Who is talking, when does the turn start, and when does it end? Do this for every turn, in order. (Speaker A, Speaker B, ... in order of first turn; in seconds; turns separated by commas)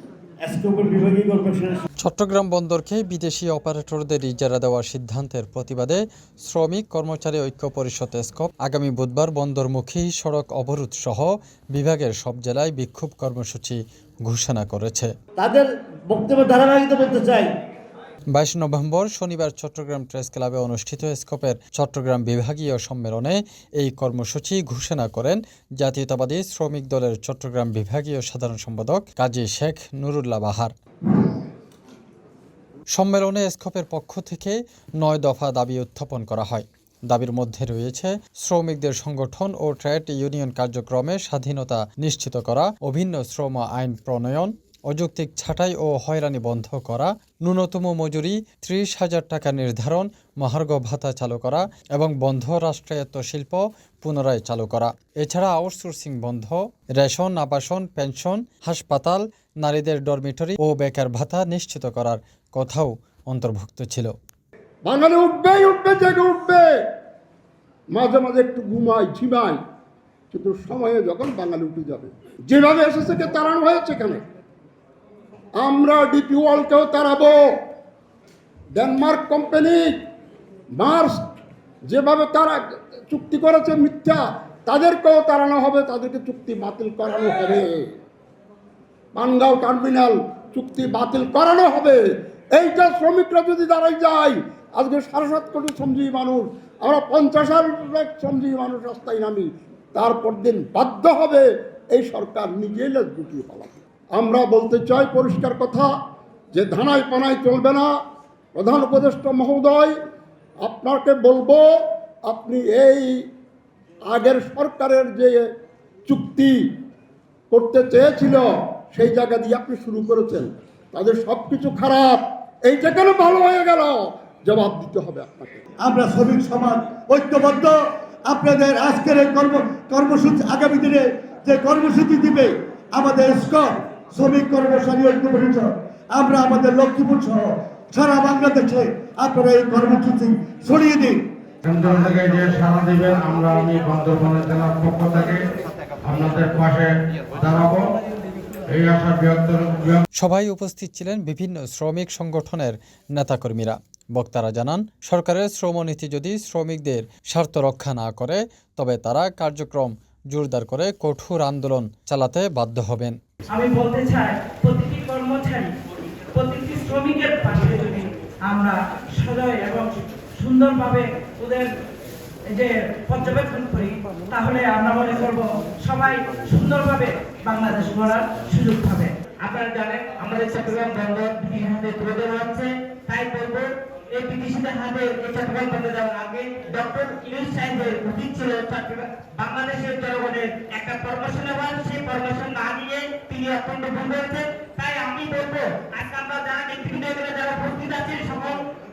Speaker A: 0.4-1.8, Speaker B: 2.0-15.1, Speaker A: 15.4-17.5, Speaker B: 18.3-30.7, Speaker B: 32.9-64.1, Speaker C: 64.8-66.7, Speaker C: 67.9-69.6, Speaker C: 70.3-74.2, Speaker C: 75.6-77.5, Speaker C: 78.7-79.9, Speaker C: 80.7-81.2, Speaker C: 81.8-87.9, Speaker C: 89.1-92.0, Speaker C: 92.5-105.9, Speaker C: 106.5-107.9, Speaker C: 108.5-110.0, Speaker C: 110.6-111.7, Speaker C: 112.2-113.2, Speaker C: 114.0-115.5, Speaker C: 116.0-116.6, Speaker C: 117.5-125.6, Speaker D: 125.8-127.7, Speaker D: 128.3-141.2, Speaker E: 141.6-145.4, Speaker E: 146.0-147.9, Speaker E: 148.7-150.1, Speaker B: 150.2-163.2, Speaker F: 163.5-165.7, Speaker F: 166.3-171.7, Speaker F: 172.5-179.1, Speaker G: 179.4-198.6